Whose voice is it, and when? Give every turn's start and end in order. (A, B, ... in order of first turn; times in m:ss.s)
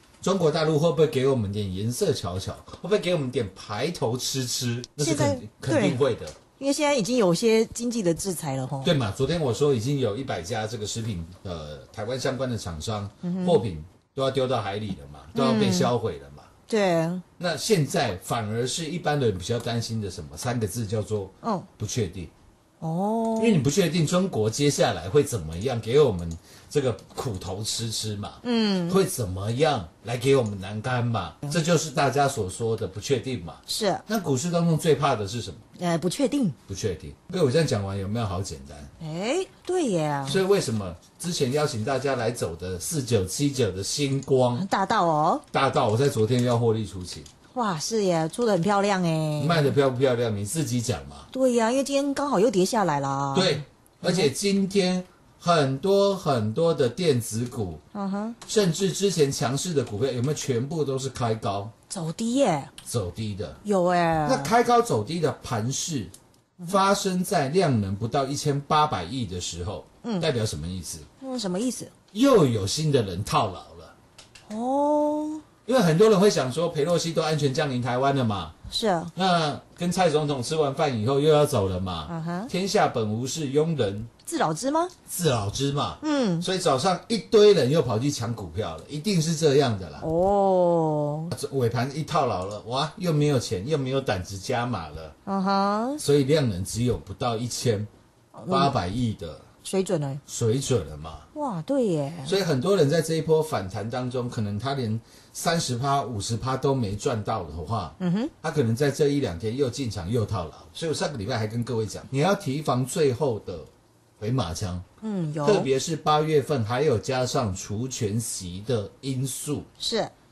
0:00.2-0:06.4 A
0:05.0-0:06.0 B
0:06.6-0:08.9 B
0:08.8-0:16.5 A
0:13.2-0:13.6 B
0:15.3-0:15.9 B
0:16.7-0:17.2 B
0:17.4-0:22.3 A
0:22.8-0:23.6 B
0:23.4-0:35.6 A
0:28.4-0:29.0 B
0:33.7-0:34.0 B
0:35.8-0:36.6 B
0:36.7-0:38.9 A
0:39.0-0:40.4 B
0:40.2-0:44.6 A
0:44.6-0:45.4 B
0:45.5-0:47.3 A
0:47.5-0:49.7 B
0:49.4-0:51.3 A
0:51.3-0:54.3 B
0:53.3-0:57.8 A
0:57.9-0:58.4 B
0:58.4-1:01.7 A
1:01.9-1:02.7 B
1:02.8-1:03.6 A
1:03.6-1:04.5 B
1:04.2-1:06.1 A
1:06.6-1:11.1 A
1:11.2-1:11.9 B
1:12.1-1:13.9 A
1:14.5-1:15.4 B
1:15.6-1:18.5 A
1:18.7-1:19.1 B
1:19.1-1:24.1 A
1:22.1-1:22.5 B
1:24.2-1:24.9 B
1:25.1-1:30.1 A
1:26.0-1:26.4 B
1:30.0-1:31.3 B
1:31.3-1:35.2 A
1:35.2-1:36.0 B
1:36.0-1:37.9 A
1:38.3-1:38.7 B
1:38.5-1:39.4 A
1:39.6-1:40.2 B
1:40.3-1:41.3 A
1:41.3-1:42.3 B
1:42.2-1:54.8 A
1:48.0-1:48.3 B
1:55.0-1:55.7 B
1:55.4-1:59.7 A
1:59.8-2:00.1 B